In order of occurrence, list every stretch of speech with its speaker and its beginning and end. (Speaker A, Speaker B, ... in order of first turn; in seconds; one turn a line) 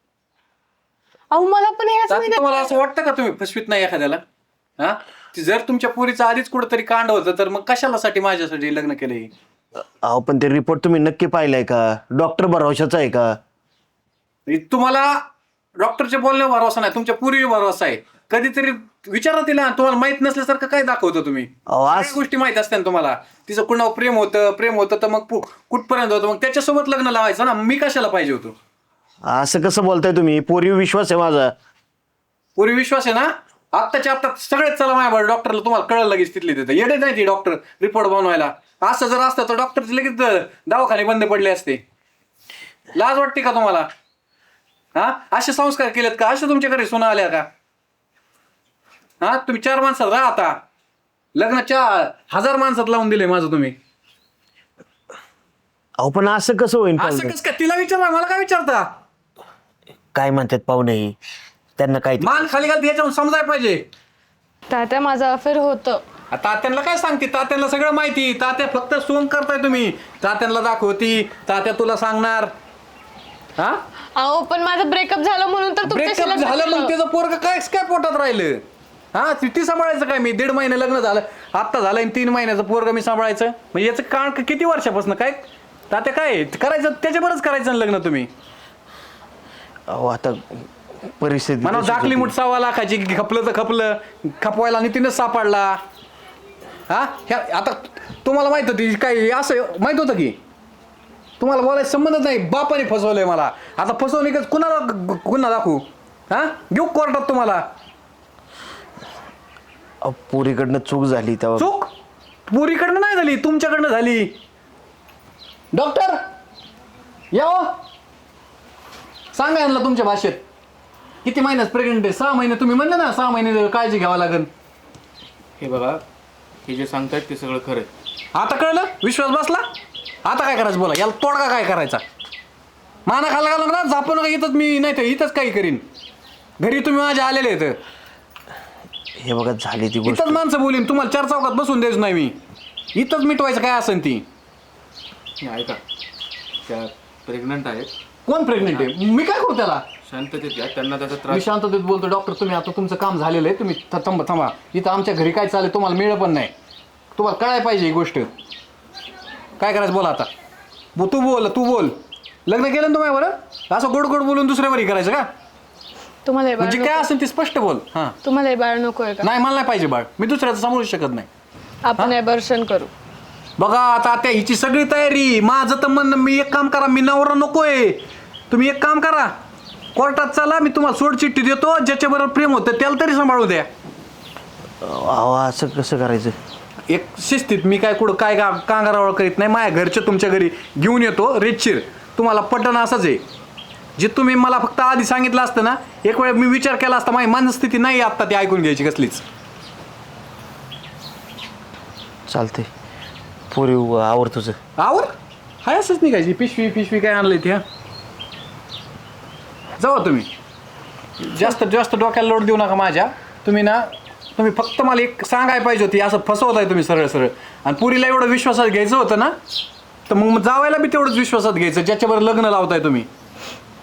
Speaker A: 1.3-2.7
Speaker B: 2.1-4.2
Speaker B: 4.8-9.3
Speaker C: 10.0-13.4
Speaker B: 14.5-15.2
Speaker B: 15.8-28.5
Speaker C: 21.7-22.2
Speaker C: 29.2-31.5
Speaker B: 32.5-41.8
Speaker B: 42.9-43.9
Speaker B: 44.9-47.5
Speaker B: 49.2-50.6
Speaker B: 51.3-53.8
Speaker C: 56.0-57.3
Speaker B: 57.0-58.9
Speaker C: 60.1-61.1
Speaker C: 61.8-62.5
Speaker B: 62.2-63.8
Speaker A: 64.7-66.0
Speaker B: 66.3-72.5
Speaker A: 74.2-76.9
Speaker B: 75.8-78.6
Speaker B: 79.1-88.3
Speaker C: 89.9-92.3
Speaker B: 91.6-95.8
Speaker B: 96.9-100.4
Speaker B: 101.4-107.6
Speaker C: 110.0-111.7
Speaker B: 111.6-111.9
Speaker B: 112.5-114.3
Speaker B: 115.7-116.2
Speaker B: 117.3-117.7
Speaker B: 119.3-120.4
Speaker B: 121.2-124.5
Speaker D: 125.6-126.0
Speaker D: 126.6-127.9
Speaker B: 128.3-129.7
Speaker B: 130.2-132.0
Speaker B: 133.1-135.8
Speaker B: 136.6-137.8
Speaker C: 139.2-140.4
Speaker B: 140.0-142.4
Speaker B: 142.9-144.2
Speaker D: 145.4-145.8
Speaker D: 146.7-147.9
Speaker B: 148.2-149.8
Speaker D: 148.6-148.9
Speaker D: 150.0-151.5
Speaker B: 151.3-156.5
Speaker B: 157.1-158.3
Speaker B: 159.6-160.3
Speaker B: 160.9-165.3
Speaker A: 166.2-167.1
Speaker B: 166.6-168.2
Speaker A: 168.2-169.3
Speaker B: 169.2-171.3
Speaker A: 171.8-172.9
Speaker B: 173.6-179.3
Speaker B: 179.9-183.7
Speaker C: 184.8-186.3
Speaker B: 186.9-193.2
Speaker B: 194.0-199.2
Speaker C: 202.3-202.7
Speaker C: 203.5-204.6
Speaker B: 204.8-205.1
Speaker B: 205.6-207.6
Speaker B: 209.8-210.3
Speaker B: 211.2-219.3
Speaker B: 220.1-223.1